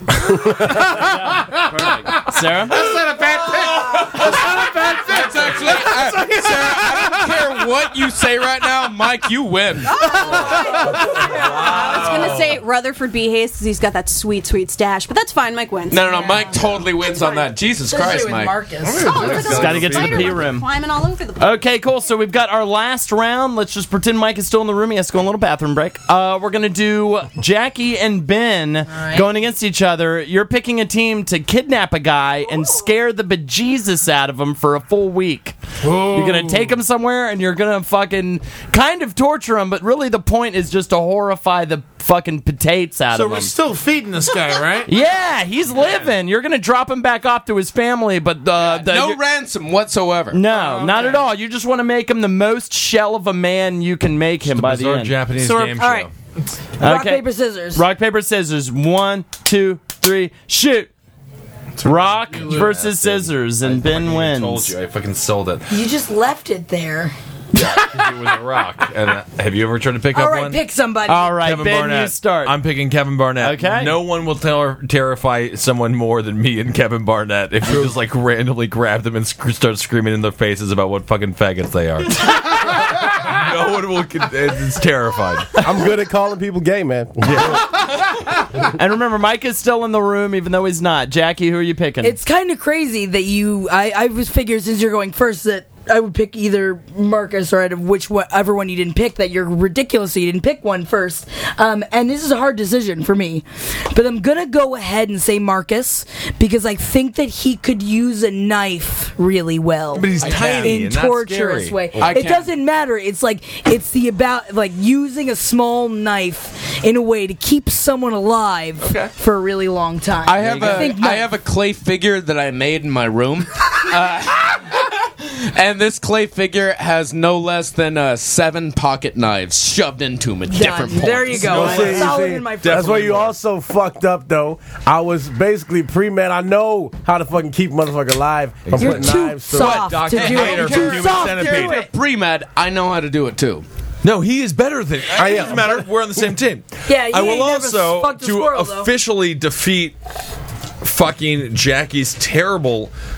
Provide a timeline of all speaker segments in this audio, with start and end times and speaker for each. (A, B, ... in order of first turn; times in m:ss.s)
0:00.8-0:07.7 A
0:00.8-0:02.9 B
0:05.0-0:10.0 C
0:09.8-0:17.6 D
0:10.0-0:11.1 A
0:11.2-0:12.6 E
0:15.9-0:18.5 C
0:16.1-0:16.5 F
0:17.9-0:19.2 F
0:18.9-0:22.1 D
0:19.0-0:20.4 E
0:19.2-0:20.7 B
0:21.4-0:43.5 B
0:28.9-0:29.2 F
0:32.4-0:33.0 D
0:35.8-0:36.7 A
0:43.1-0:44.9 A
0:44.8-0:49.2 B
0:48.6-0:50.5 C
0:50.3-0:55.2 B
0:50.5-0:51.2 A
0:54.5-0:56.1 E
0:55.4-0:55.8 A
0:55.8-0:56.1 F
0:56.8-1:00.9 B
0:56.8-0:57.8 F
1:01.8-1:04.7 B
1:01.8-1:05.7 E
1:02.3-1:02.6 A
1:05.7-1:07.1 F
1:07.5-1:10.6 E
1:10.1-1:11.4 F
1:11.0-1:12.6 B
1:11.4-1:25.7 E
1:13.4-1:14.0 B
1:25.6-1:27.7 G
1:27.3-1:27.6 E
1:28.7-1:32.2 B
1:32.0-2:01.3 F
1:49.9-1:52.1 E
1:50.2-1:50.6 C
1:52.0-1:52.5 C
1:58.8-1:59.1 E
2:00.2-2:11.8 C
2:00.4-2:00.9 B
2:10.5-2:13.0 F
2:11.0-2:12.0 B
2:11.4-2:13.3 E
2:11.4-2:19.8 G
2:18.6-2:21.8 E
2:18.7-2:21.9 F
2:19.5-2:23.6 C
2:24.0-2:30.0 E
2:25.1-2:26.3 G
2:26.9-2:28.9 F
2:30.8-2:32.9 E